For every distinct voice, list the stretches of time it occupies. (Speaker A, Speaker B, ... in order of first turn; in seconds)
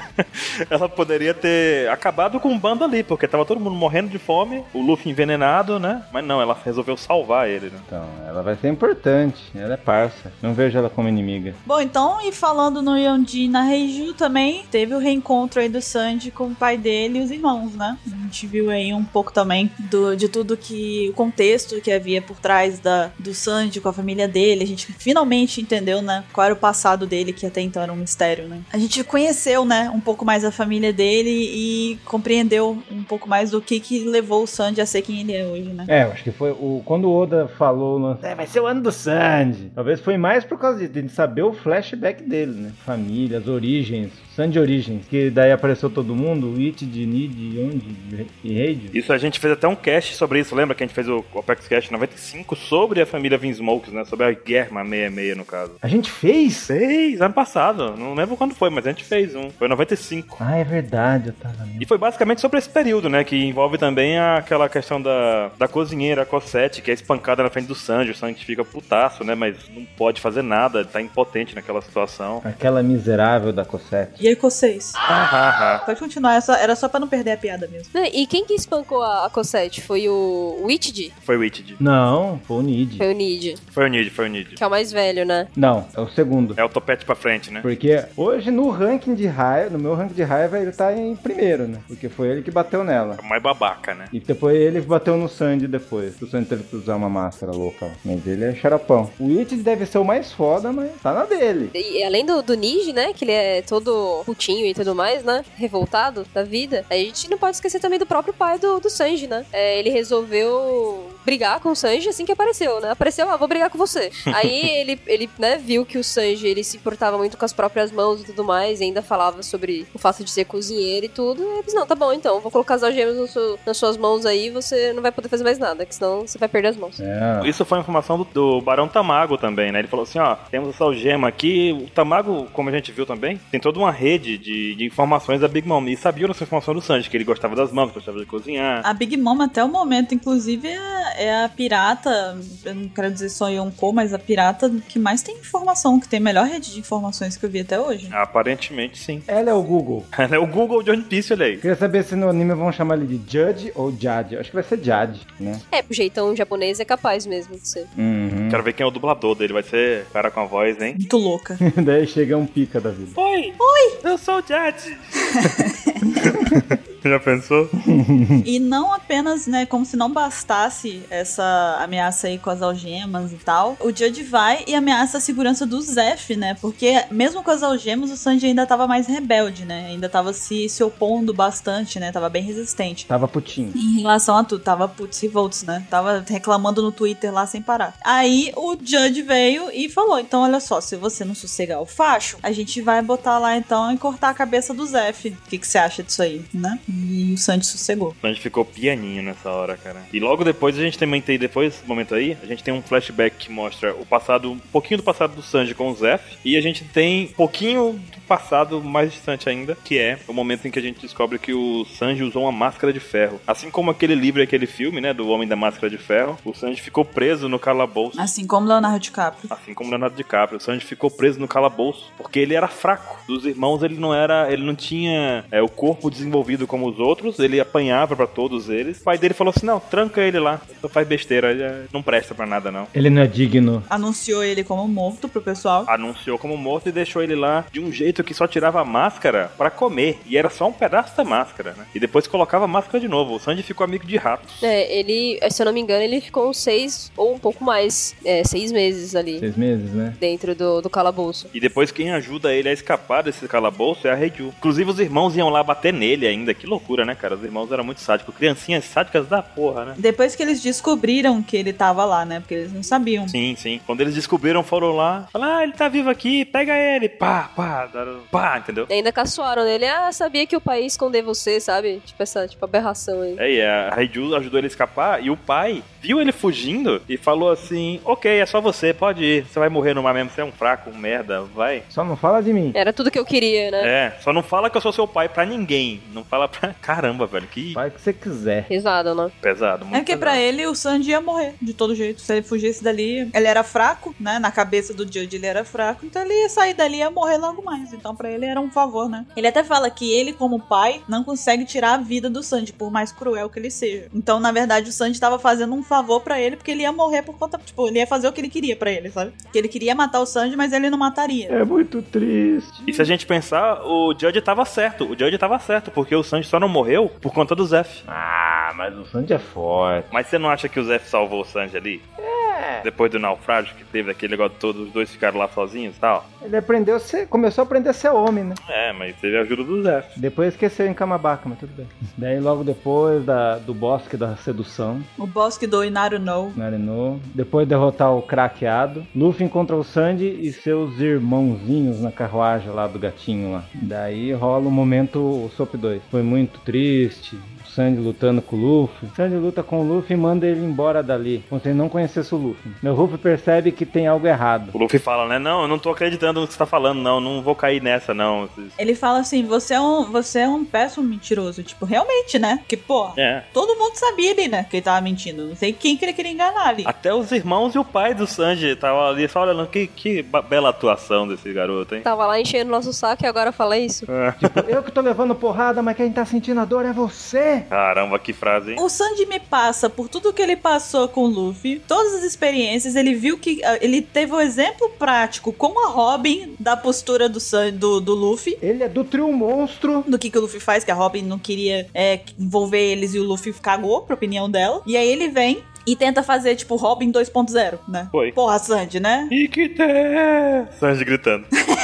Speaker A: 0.2-7.8, 48.9-55.8, 56.7-60.4, 61.8-72.4, 75.0-75.8, 81.2-81.8, 83.7-84.6, 86.6-87.7, 93.2-94.1, 127.4-138.8, 148.1-149.2, 150.1-151.6, 158.5-161.0, 163.2-165.1, 166.2-167.7, 198.2-218.3, 219.5-232.9, 235.8-244.7, 251.5-260.0, 263.3-268.9, 273.4-281.9, 283.8-287.8, 289.4-290.4, 312.9-318.0, 320.1-322.0, 322.8-326.2, 328.6-330.1, 354.7-358.8, 363.1-363.4, 366.8-372.1, 374.1-374.7, 377.7-378.8, 399.3-401.5
Speaker B: 7.9-11.6, 35.9-48.9, 55.8-56.7, 60.4-61.9, 72.4-74.2, 81.8-83.1, 85.5-86.6, 87.6-93.2, 94.1-101.7, 127.0-127.5, 149.3-150.1, 151.6-155.6, 157.9-158.6, 161.6-163.2, 167.9-168.4, 183.1-183.8, 232.9-233.9, 249.4-250.2, 281.9-282.8, 287.7-288.7, 311.5-313.1, 318.0-320.1, 322.2-322.9, 326.4-328.6, 330.1-335.1, 336.5-354.8, 374.4-377.7, 388.6-390.1
Speaker C: 11.6-35.9, 74.2-75.0, 75.8-77.9, 138.8-148.1, 160.9-161.6, 163.6-164.0, 165.4-166.0, 168.4-183.1, 183.7-198.2, 218.1-219.5, 233.9-235.9, 260.0-263.3, 289.9-311.6, 335.2-336.6, 358.8-366.9, 378.8-388.6, 390.1-399.3
Speaker D: 77.9-81.1, 83.0-83.6, 84.6-85.5, 101.7-127.0, 155.7-157.9, 244.6-249.4, 250.2-251.5, 268.9-273.4, 282.7-283.9, 288.7-289.3, 372.0-374.1